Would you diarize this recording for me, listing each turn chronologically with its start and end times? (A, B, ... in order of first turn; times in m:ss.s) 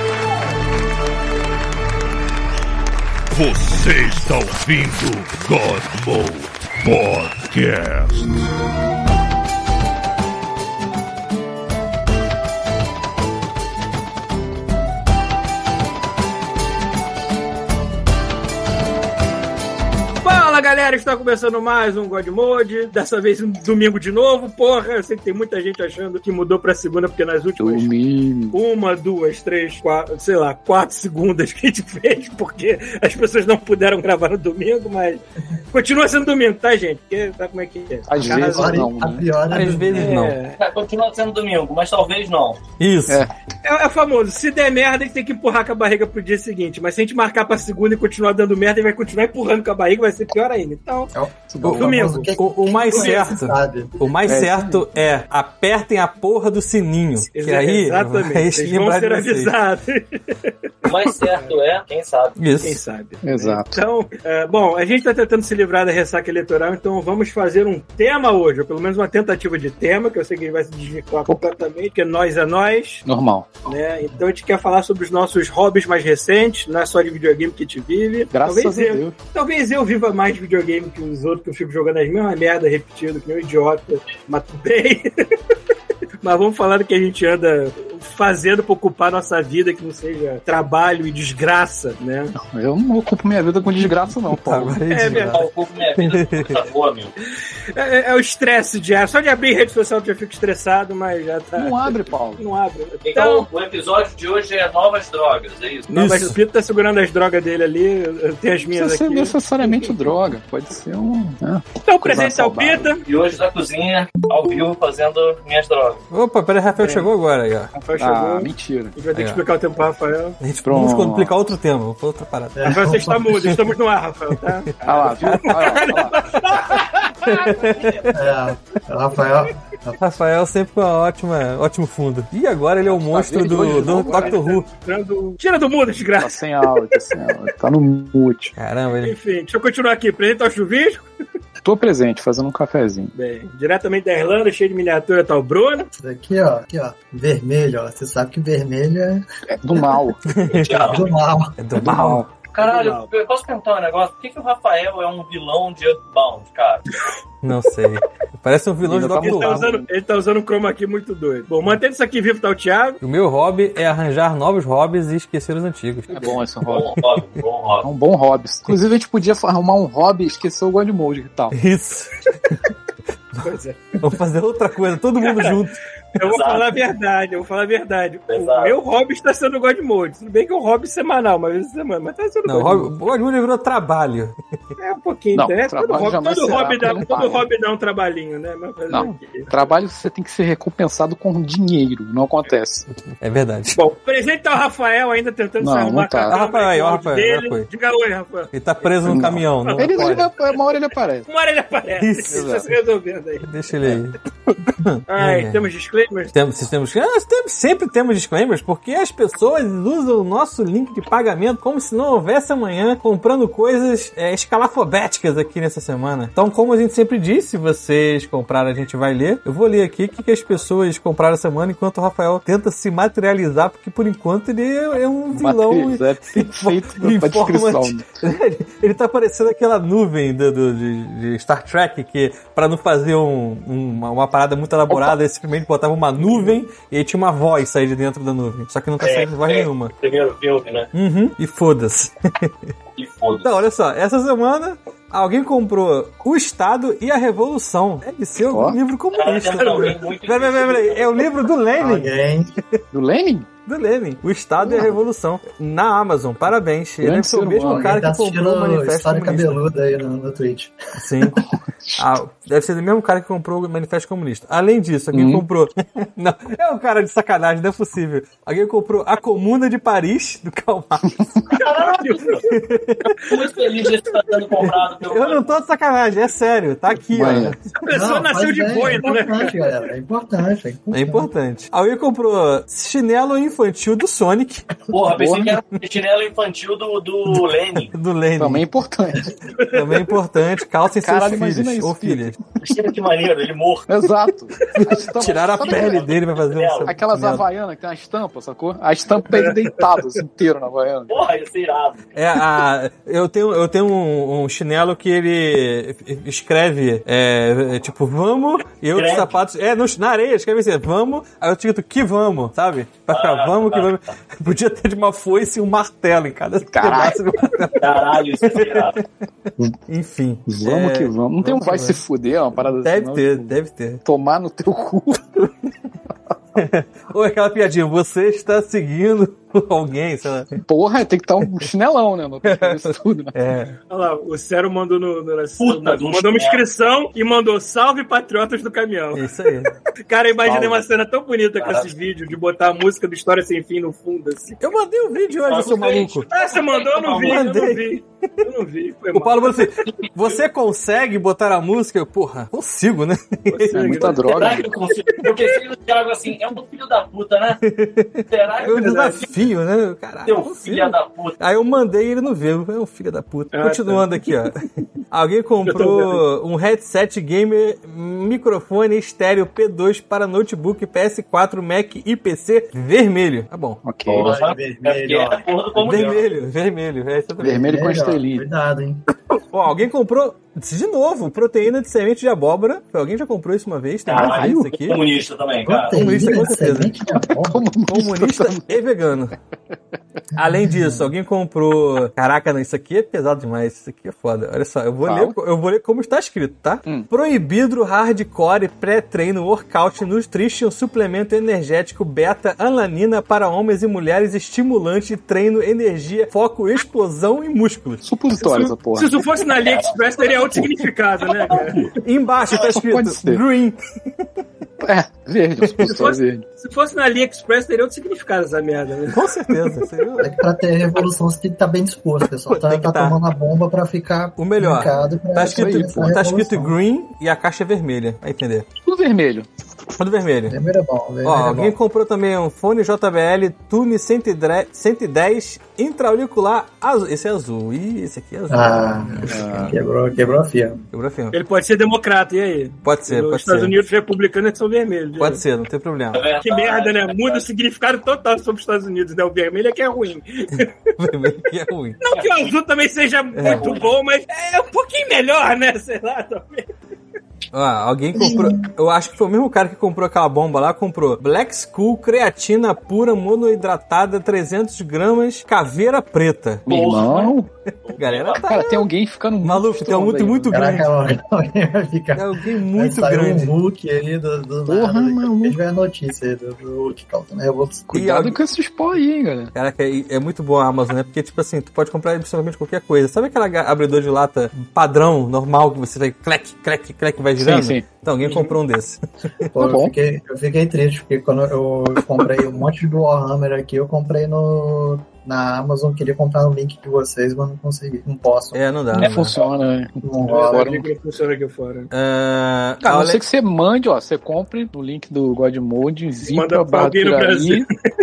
0:03.3-0:08.5 A
0:20.2-0:27.9 B
0:27.6-0:28.6 C
0:28.5-0:35.2 B
0:35.7-0:38.9 B
0:38.1-0:40.0 C
0:38.2-0:40.0 D
0:39.5-0:40.4 E
0:39.9-0:40.6 B
0:40.6-0:42.6 F
0:42.8-0:43.2 E
0:43.6-0:51.1 B
0:51.1-0:54.4 D
0:51.5-0:52.2 C
0:51.6-0:59.5 E
0:51.7-0:52.3 B
0:52.9-0:53.3 B
0:54.2-0:54.8 C
0:57.3-1:00.5 B
1:00.8-1:02.4 F
1:02.4-1:02.8 E
1:02.6-1:13.0 B
1:03.2-1:03.8 C
1:13.0-1:13.5 C
1:13.6-1:25.1 B
1:18.3-1:19.1 C
1:26.2-1:32.3 B
1:32.4-1:34.8 C
1:33.8-1:35.4 E
1:34.9-1:35.4 B
1:35.3-1:37.1 F
1:36.0-1:36.6 E
1:37.7-1:43.5 B
1:41.6-1:42.4 C
1:43.0-1:45.9 F
1:45.9-1:50.1 B
1:45.9-1:46.4 E
1:48.7-1:52.9 C
1:51.8-1:53.0 B
1:53.0-1:56.0 F
1:56.1-1:57.7 E
1:56.8-1:57.1 B
1:57.7-2:00.4 B
1:58.0-1:58.9 C
1:59.1-1:59.4 E
2:00.4-2:03.6 E
2:00.6-2:01.4 C
2:02.5-2:03.3 D
2:02.6-2:07.4 B
2:04.8-2:06.2 C
2:05.2-2:05.9 E
2:07.2-2:08.2 E
2:07.7-2:08.2 F
2:08.1-2:10.0 D
2:10.0-2:14.7 E
2:12.9-2:14.4 C
2:13.6-2:16.4 B
2:16.2-2:18.5 C
2:18.6-2:19.1 E
2:19.0-2:21.1 B
2:21.6-2:23.1 C
2:23.1-2:25.9 B
2:26.0-2:29.2 D
2:29.5-2:30.2 C
2:30.3-2:30.9 E
2:30.5-2:31.1 F
2:30.9-2:31.6 D
2:31.6-2:32.3 E
2:31.7-2:32.3 C
2:32.5-2:36.9 F
2:32.6-2:33.1 B
2:37.4-2:39.6 E
2:38.8-2:39.9 C
2:39.2-2:43.0 B
2:43.0-2:46.3 E
2:46.1-2:46.9 C
2:46.6-2:47.8 F
2:47.8-2:51.6 C
2:51.5-2:52.5 E
2:53.3-2:55.8 E
2:53.4-2:54.0 B
2:55.2-2:55.6 B
2:56.1-3:02.9 B
2:56.2-2:56.8 F
2:58.3-2:58.8 F
3:02.4-3:04.4 E
3:04.8-3:09.7 B
3:05.3-3:07.4 C
3:08.9-3:12.9 C
3:13.2-3:13.8 E
3:13.8-3:20.3 B
3:15.6-3:16.3 C
3:16.3-3:17.7 E
3:18.5-3:20.3 E
3:19.0-3:21.3 C
3:21.3-3:23.5 B
3:22.0-3:22.5 E
3:22.3-3:22.7 C
3:23.4-3:24.2 E
3:23.8-3:24.6 C
3:24.8-3:25.7 E
3:25.1-3:26.3 B
3:26.3-3:59.9 E
3:45.3-3:48.0 C
3:54.9-3:55.2 C
3:59.0-4:00.9 F
4:00.9-4:02.5 E
4:03.0-4:03.6 F
4:03.4-4:12.1 E
4:08.4-4:08.8 C
4:09.1-4:11.4 F
4:09.6-4:10.0 B
4:11.8-4:12.6 D
4:12.9-4:13.5 C
4:13.6-4:19.6 E
4:14.6-4:14.9 C
4:17.0-4:18.0 C
4:17.7-4:21.4 D
4:21.0-4:21.4 E
4:22.0-4:31.5 E
4:25.1-4:25.4 C
4:31.5-4:32.4 B
4:32.4-4:33.2 E
4:33.3-4:35.5 F
4:35.1-4:37.7 E
4:37.1-4:37.5 C
4:37.8-4:39.6 B
4:37.9-4:41.3 D
4:40.9-4:44.7 E
4:44.9-4:47.9 F
4:45.0-4:45.6 C
4:47.9-4:48.6 E
4:48.4-4:49.3 C
4:49.6-4:50.0 B
4:49.7-4:52.4 E
4:51.0-4:52.3 C
4:52.6-4:53.9 F
4:53.9-4:56.1 C
4:54.8-4:57.4 E
4:55.2-4:56.9 F
4:56.8-5:01.2 C
5:01.1-5:02.2 F
5:02.1-5:19.0 E
5:08.9-5:09.4 F
5:13.1-5:14.1 F
5:16.7-5:17.2 C
5:17.7-5:19.0 F
5:19.9-5:22.0 E
5:20.5-5:23.5 C
5:22.6-5:24.0 E
5:24.0-5:25.2 C
5:26.6-5:30.6 E
5:30.6-5:33.4 C
5:32.4-5:33.8 E
5:33.9-5:39.3 B
5:35.6-5:36.6 F
5:39.1-5:39.7 E
5:40.1-5:44.6 B
5:41.6-5:41.9 F
5:44.6-5:46.3 E
5:45.5-5:47.4 F
5:46.3-5:49.8 B
5:47.1-5:47.8 E
5:49.1-5:54.1 E
5:53.5-5:54.6 B
5:53.7-5:54.7 C
5:54.2-5:57.6 F
5:57.6-6:13.8 E
5:58.3-5:59.3 F
6:00.2-6:01.4 F
6:03.5-6:04.3 B
6:05.6-6:06.2 B
6:13.8-6:14.3 C
6:14.1-6:16.3 F
6:14.1-6:15.4 D
6:15.8-6:17.7 E
6:17.4-6:18.4 C
6:17.6-6:19.0 D
6:19.5-6:25.0 E
6:24.1-6:25.9 F
6:24.1-6:24.7 C
6:25.6-6:27.7 D
6:26.0-6:27.0 E
6:26.0-6:28.7 C
6:27.8-6:29.3 E
6:30.3-6:48.0 E
6:30.6-6:31.0 D
6:35.0-6:35.3 C
6:48.0-6:49.2 C
6:48.4-6:52.0 B
6:49.4-6:50.7 F
6:51.2-6:51.8 F
6:52.0-6:53.8 E
6:52.6-6:53.4 C
6:54.8-6:56.4 C
6:55.8-6:59.8 B
6:59.1-7:00.3 E
7:00.2-7:06.7 D
7:02.5-7:03.2 E
7:04.4-7:08.6 E
7:05.5-7:06.1 C
7:08.8-7:09.5 C
7:10.0-7:10.6 E
7:10.5-7:11.8 D
7:11.2-7:19.7 E
7:18.5-7:20.8 D
7:19.3-7:19.7 C
7:20.9-7:21.4 E
7:21.3-7:25.4 B
7:22.8-7:23.8 E
7:25.2-7:26.2 E
7:26.1-7:27.5 F
7:26.4-7:30.9 B
7:31.0-7:32.0 E
7:32.0-7:36.7 B
7:32.1-7:32.5 F
7:33.3-7:33.8 E
7:33.4-7:33.9 F
7:37.5-7:46.6 E
7:38.1-7:38.7 D
7:46.7-7:47.5 C
7:46.7-7:48.5 F
7:48.0-7:48.8 E
7:48.4-7:50.5 C
7:49.4-7:50.9 E
7:50.5-7:57.9 D
7:52.1-7:53.5 E
7:54.7-7:55.6 C
7:57.9-7:59.5 C
7:57.9-7:58.4 E
7:59.5-8:09.0 E
8:07.4-8:07.8 C
8:08.2-8:08.5 B
8:09.5-8:18.6 D
8:09.6-8:09.9 C
8:18.5-8:19.3 E
8:18.9-8:20.8 C
8:20.0-8:20.8 D
8:20.3-8:21.9 B
8:21.9-8:23.2 E
8:22.8-8:27.7 C
8:26.2-8:27.7 B